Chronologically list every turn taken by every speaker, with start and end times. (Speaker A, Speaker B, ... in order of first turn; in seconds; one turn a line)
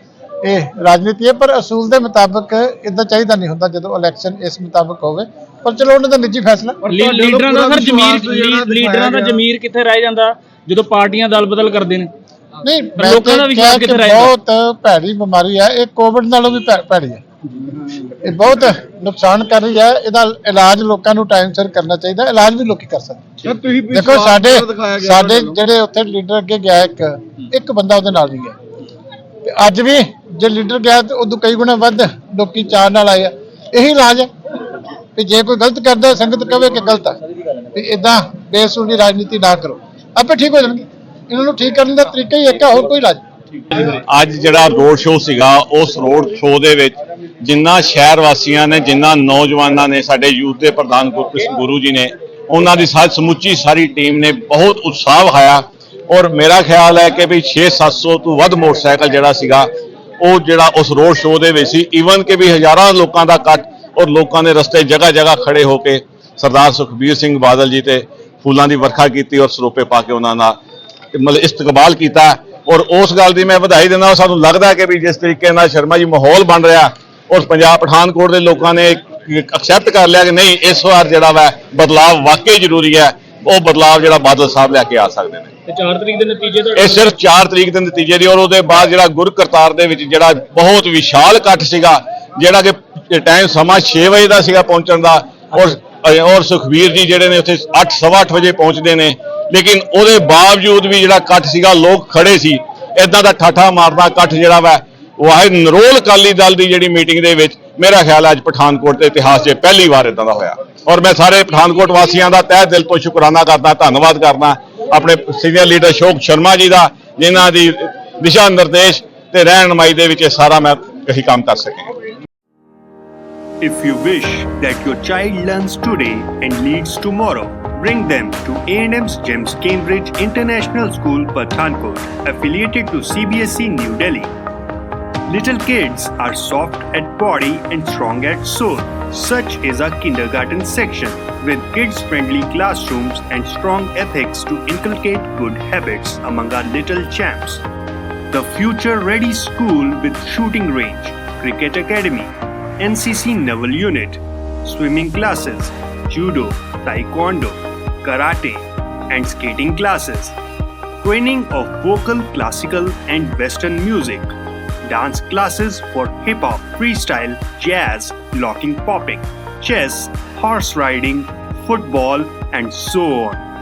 Speaker A: 0.4-6.8
Speaker B: 6.8-9.4
Speaker C: 6.9-12.1
Speaker A: 12.6-17.2
Speaker C: 12.9-14.3
Speaker A: 18.2-23.2
Speaker B: 23.4-25.6
Speaker A: 23.9-28.6
Speaker A: 29.4-34.3
Speaker A: 35.1-37.2
Speaker A: 37.7-43.2
Speaker D: 43.7-59.7
Speaker D: 60.2-70.6
Speaker D: 71.1-85.5
Speaker C: 85.7-87.1
Speaker D: 86.7-121.9
Speaker E: 123.6-134.3
Speaker E: 135.3-147.6
Speaker E: 148.3-160.3
Speaker E: 161.0-164.3
Speaker E: 164.8-173.4